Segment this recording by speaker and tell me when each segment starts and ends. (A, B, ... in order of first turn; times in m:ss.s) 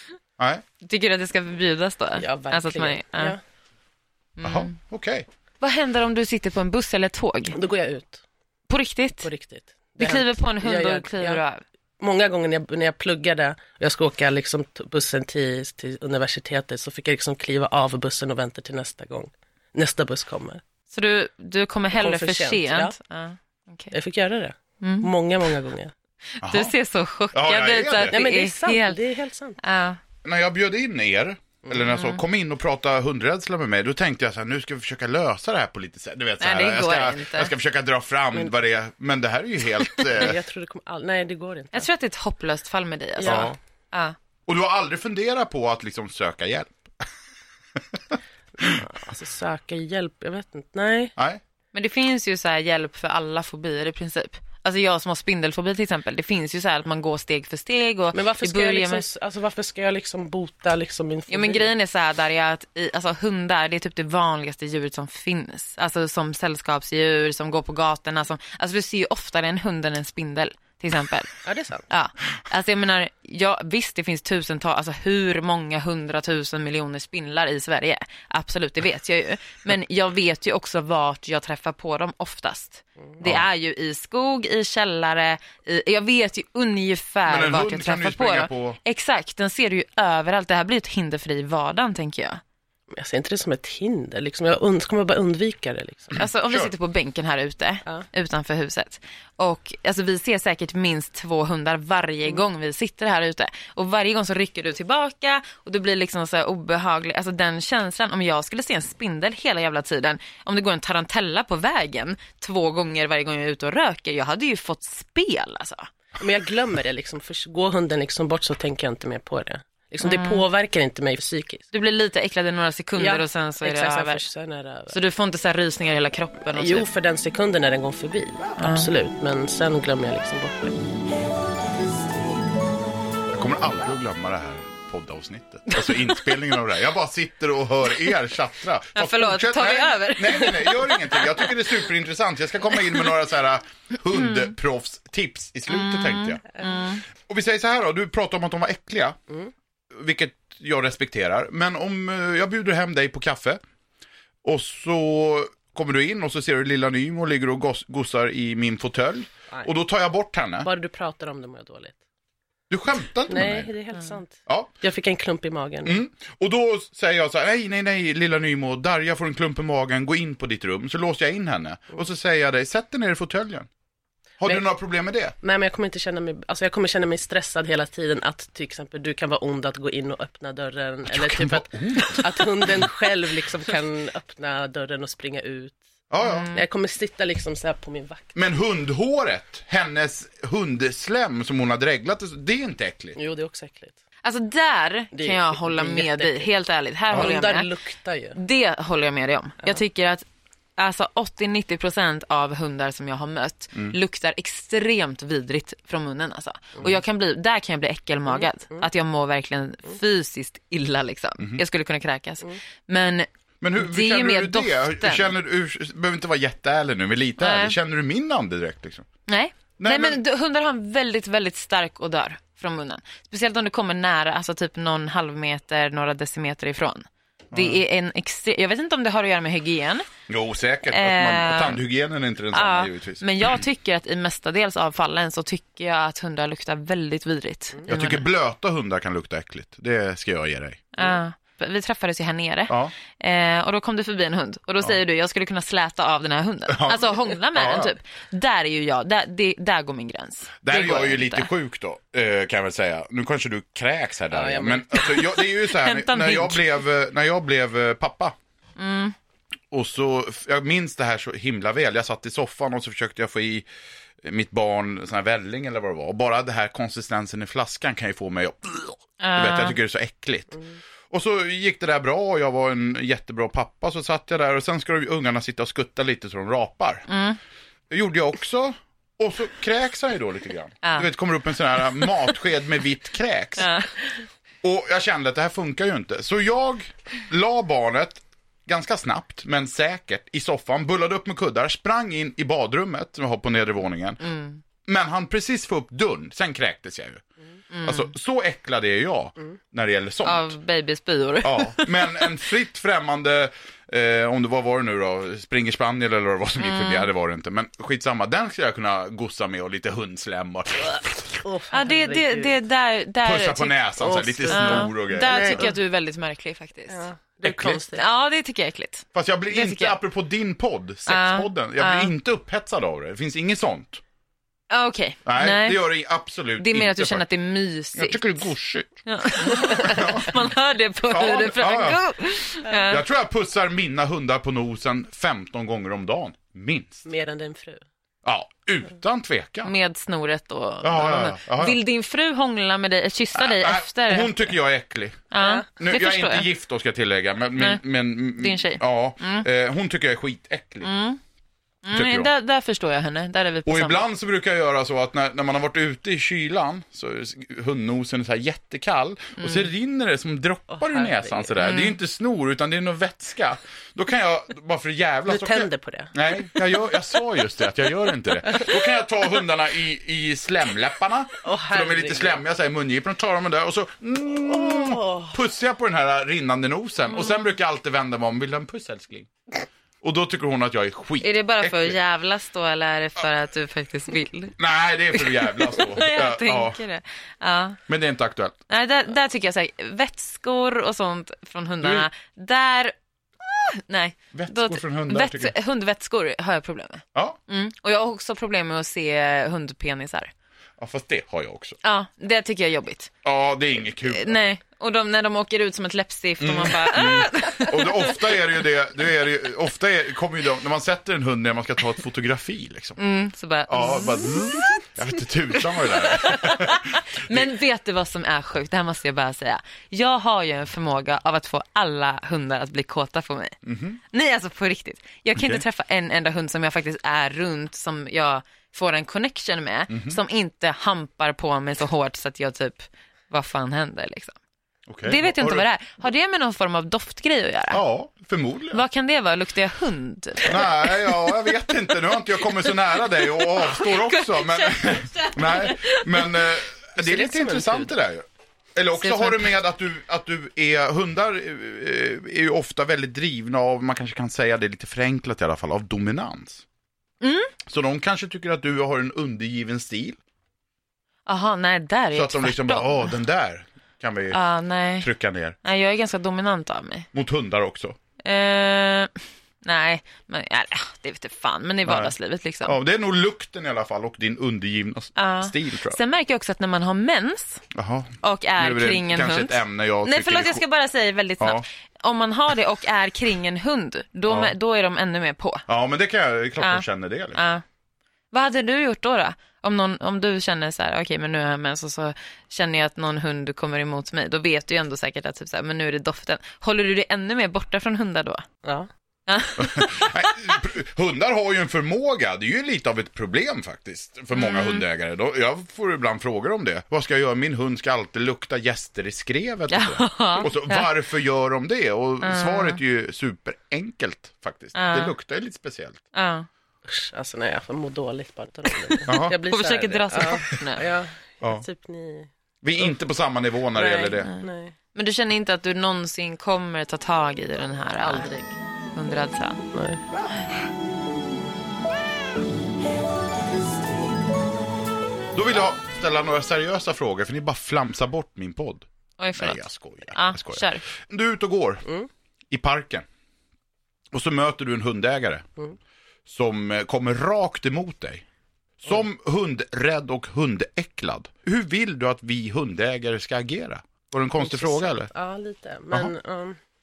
0:00.4-0:00.6 A
0:00.8-0:03.4 B
0:02.2-0:03.4 C
0:04.4-0:04.7 B
0:04.4-0:05.2 A
0:05.6-0:07.6 B
0:07.5-0:08.2 C
0:08.7-0:09.3 B
0:09.2-0:11.4 C
0:10.0-0:11.6 B
0:12.0-0:20.6 C
0:20.9-0:23.9 B
0:21.9-0:23.0 C
0:23.9-0:25.9 C
0:24.8-0:25.1 B
0:26.4-0:29.0 B
0:26.4-0:26.7 A
0:27.3-0:28.2 A
0:28.1-0:29.6 C
0:29.6-0:30.0 B
0:30.2-0:40.4 A
0:31.9-0:32.2 B
0:36.4-0:37.5 B
0:40.1-0:41.9 C
0:41.7-0:44.1 B
0:43.2-0:43.6 C
0:43.2-0:43.5 A
0:44.5-0:47.1 A
0:47.7-0:48.8 A
0:48.6-0:51.1 C
0:51.7-0:59.0 B
0:58.1-1:01.7 C
1:01.3-1:11.4 B
1:11.4-1:11.8 C
1:11.9-1:32.4 B
1:23.2-1:23.5 A
1:27.2-1:28.8 A
1:32.9-1:36.2 C
1:36.1-1:55.9 B
1:36.1-1:36.7 A
1:56.2-2:01.6 C
2:00.0-2:00.4 B
2:01.7-2:04.2 B
2:03.0-2:04.9 C
2:04.9-2:06.9 B
2:06.5-2:10.8 C
2:08.6-2:08.9 B
2:13.3-2:26.4 A
2:19.0-2:21.5 B
2:25.7-2:27.0 B
2:26.5-2:26.8 C
2:27.1-2:29.2 A
2:29.9-2:33.6 A
2:34.4-2:40.7 A
2:40.6-2:42.0 C
2:42.7-2:43.7 A
2:43.3-2:46.0 C
2:44.4-2:44.7 A
2:45.8-2:53.7 A
2:54.4-2:55.3 A
2:55.4-3:05.8 C
3:01.1-3:02.8 A
3:06.1-3:06.5 A
3:06.2-3:06.6 B
3:06.5-3:08.3 C
3:08.3-3:13.2 A
3:13.2-3:14.0 C
3:14.2-3:17.7 B
3:15.1-3:16.5 C
3:17.1-3:18.4 C
3:18.3-3:20.2 B
3:20.8-3:35.3 B
3:28.3-3:28.8 C
3:33.6-3:39.1 A
3:37.4-3:37.8 B
3:39.3-3:50.1 B
3:39.8-3:40.2 A
3:47.5-3:47.8 A
3:50.3-3:53.6 A
3:50.9-3:51.8 B
3:52.5-3:58.3 B
3:57.9-4:00.9 A
4:00.9-4:11.5 B
4:02.7-4:02.9 A
4:06.7-4:07.9 A
4:10.6-4:18.3 A
4:14.3-4:14.8 C
4:14.9-4:16.7 B
4:18.8-4:19.1 B
4:19.7-4:23.7 A
4:24.2-4:37.1 A
4:29.2-4:29.8 B
4:37.1-4:37.4 B
4:37.9-4:43.7 A
4:40.8-4:41.1 B
4:43.6-4:44.0 B
4:44.6-4:54.2 A
4:54.2-4:54.6 B
4:54.8-4:57.2 A
4:57.7-4:58.1 B
4:57.8-5:00.5 A
5:00.2-5:02.3 B
5:01.4-5:11.4 A
5:06.6-5:07.1 B
5:11.4-5:12.6 C
5:11.7-5:13.8 B
5:13.2-5:15.6 A
5:14.0-5:15.7 C
5:14.5-5:17.0 B
5:16.9-5:18.0 C
5:17.5-5:17.7 A
5:17.6-5:20.0 B
5:19.1-5:24.0 A
5:21.1-5:22.1 B
5:24.7-5:25.9 B
5:25.2-5:27.2 A
5:26.6-5:28.4 B
5:27.9-5:30.4 A
5:29.0-5:33.0 B
5:31.1-5:32.0 A
5:32.8-5:37.0 A
5:37.0-5:37.8 C
5:38.2-5:39.7 A
5:39.6-5:44.5 B
5:40.8-5:41.8 A
5:43.3-5:50.9 A
5:45.3-5:46.5 B
5:45.4-5:45.7 C
5:47.6-5:49.4 B
5:50.8-5:51.2 B
5:51.8-5:54.0 B
5:51.9-5:52.3 A
5:53.6-6:19.3 A
5:59.4-5:59.7 B
6:00.7-6:01.5 C
6:01.6-6:02.0 B
6:05.3-6:06.1 C
6:11.4-6:12.4 C
6:14.5-6:15.3 C
6:20.0-6:22.0 A
6:21.2-6:24.5 B
6:24.6-6:26.8 A
6:25.1-6:27.8 B
6:27.9-6:28.6 A
6:28.7-6:40.3 B
6:31.8-6:32.1 A
6:34.3-6:35.5 A
6:40.8-6:41.8 A
6:41.8-6:43.1 B
6:43.2-6:44.4 A
6:44.0-6:48.4 B
6:46.4-6:53.0 A
6:53.0-6:54.8 B
6:53.7-6:57.5 A
6:55.9-7:03.6 B
7:03.6-7:04.0 A
7:04.1-7:14.3 B
7:05.4-7:05.6 A
7:09.9-7:10.2 A
7:14.9-7:15.6 A
7:15.0-7:17.8 B
7:17.7-7:18.8 A
7:18.7-7:21.3 B
7:20.4-7:36.6 A
7:22.7-7:26.5 B
7:27.0-7:27.9 C
7:29.0-7:29.5 B
7:37.2-7:37.5 B
7:37.6-7:40.2 A
7:41.2-7:43.1 B
7:42.1-7:44.4 A
7:44.3-7:45.1 B
7:45.0-7:45.6 A
7:45.6-7:47.1 B
7:47.1-7:48.0 A
7:48.2-7:49.1 B
7:49.6-7:52.8 B
7:51.8-7:52.1 A
7:52.6-7:56.0 A
7:55.2-7:57.6 B
7:57.7-8:00.6 A
7:58.2-8:05.6 B
8:01.4-8:01.6 A
8:04.3-8:04.5 A
8:05.7-8:07.4 A
8:06.6-8:07.6 B
8:08.3-8:18.4 B
8:18.6-8:18.9 C
8:19.3-8:20.2 B
8:19.6-8:36.0 A
8:24.3-8:24.8 B
8:29.7-8:30.9 B
8:32.2-8:32.8 B
8:34.7-8:35.1 B
8:36.1-8:36.5 B
8:36.8-8:42.3 C
8:38.9-8:40.9 B
8:39.1-8:39.4 A
8:42.6-8:44.3 A
8:43.7-8:44.7 C
8:44.2-8:48.3 B
8:48.0-8:48.5 C
8:48.9-8:49.6 B
8:49.7-8:50.0 C
8:55.3-8:58.8 A
8:59.2-9:00.8 B
8:59.4-9:01.8 A
9:02.5-9:03.0 A
9:04.1-9:05.5 A
9:06.3-9:08.2 A
9:08.8-9:15.1 A
9:14.4-9:16.6 C